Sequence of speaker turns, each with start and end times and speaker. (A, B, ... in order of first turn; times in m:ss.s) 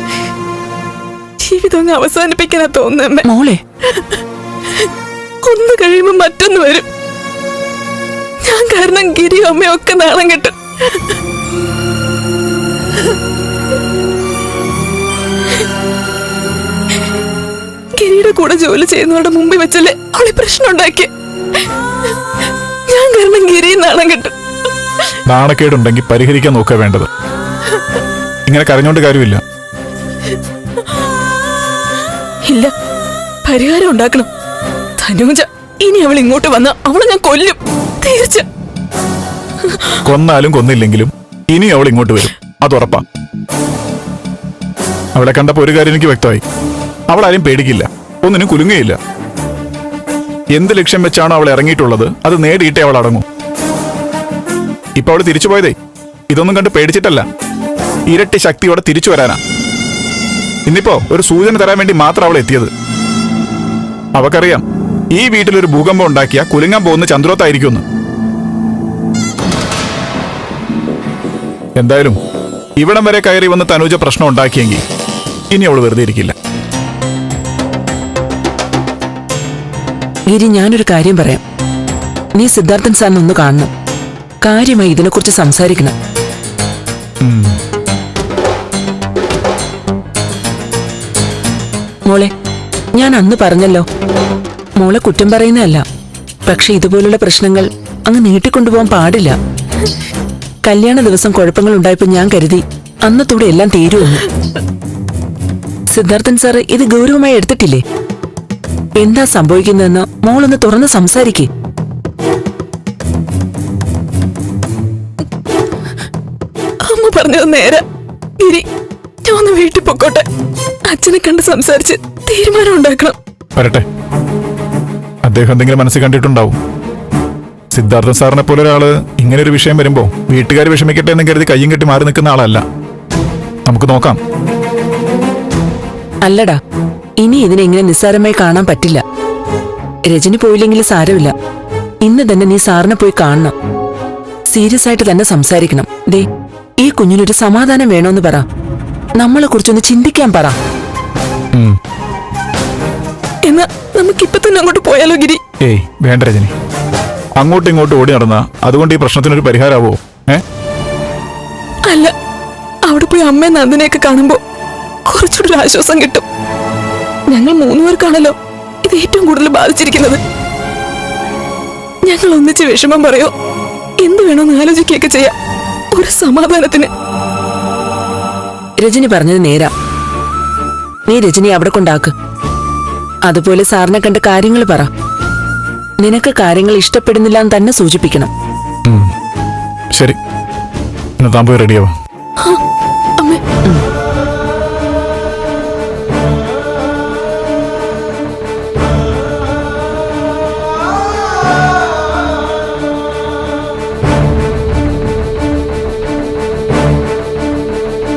0:01.4-0:03.2 A
0:03.2-0:03.6 B
0:03.9-0:04.2 A
0:05.4-0:06.9 A
0:08.4-0:11.2 A
0:17.9-0:21.1 A
0:22.9-0:24.3 A
0:25.2-0:27.1 C
0:28.4-0:29.4 C
0:32.4-0:32.7 A
0:33.4-0:34.3 A
0:35.0-0:38.4 A
0:39.6-0:40.0 A
0:40.0-0:43.0 C
0:45.1-0:46.4 C
0:47.1-0:49.0 C
0:50.5-0:53.2 C
0:55.0-0:55.7 C
0:56.3-0:57.2 C
0:58.1-0:59.4 C
1:00.6-1:02.7 C
1:04.1-1:07.8 C
1:11.8-1:12.2 C
1:12.8-1:14.8 C
1:15.5-1:16.3 C
1:20.3-1:21.4 B
1:22.4-1:23.7 B
1:24.4-1:25.9 B
1:27.2-1:27.5 C
1:32.9-1:33.8 B
1:34.8-1:35.8 B
1:36.4-1:39.4 B
1:40.6-1:44.3 B
1:45.9-1:47.8 B
1:49.0-1:51.5 B
1:56.8-1:57.8 A
1:58.4-1:58.6 A
1:59.2-2:00.2 A
2:00.8-2:03.2 A
2:03.6-2:03.8 C
2:05.2-2:06.6 C
2:07.7-2:12.6 C
2:13.6-2:14.2 C
2:16.2-2:16.6 B
2:17.2-2:19.0 B
2:20.1-2:21.3 B
2:22.0-2:23.5 B
2:24.5-2:26.2 B
2:26.8-2:28.4 B
2:29.2-2:30.6 B
2:33.4-2:35.4 A
2:35.6-2:36.5 C
2:37.4-2:40.4 C
2:41.8-2:42.1 A
2:42.8-2:44.4 A
2:45.0-2:46.2 A
2:47.3-2:50.2 A
2:52.0-2:53.3 A
2:54.0-2:55.3 A
2:55.9-2:56.9 A
2:58.8-2:59.7 B
3:01.1-3:02.1 B
3:03.2-3:04.9 B
3:06.0-3:08.3 B
3:08.8-3:09.1 C
3:11.2-3:11.9 C
3:13.2-3:13.6 A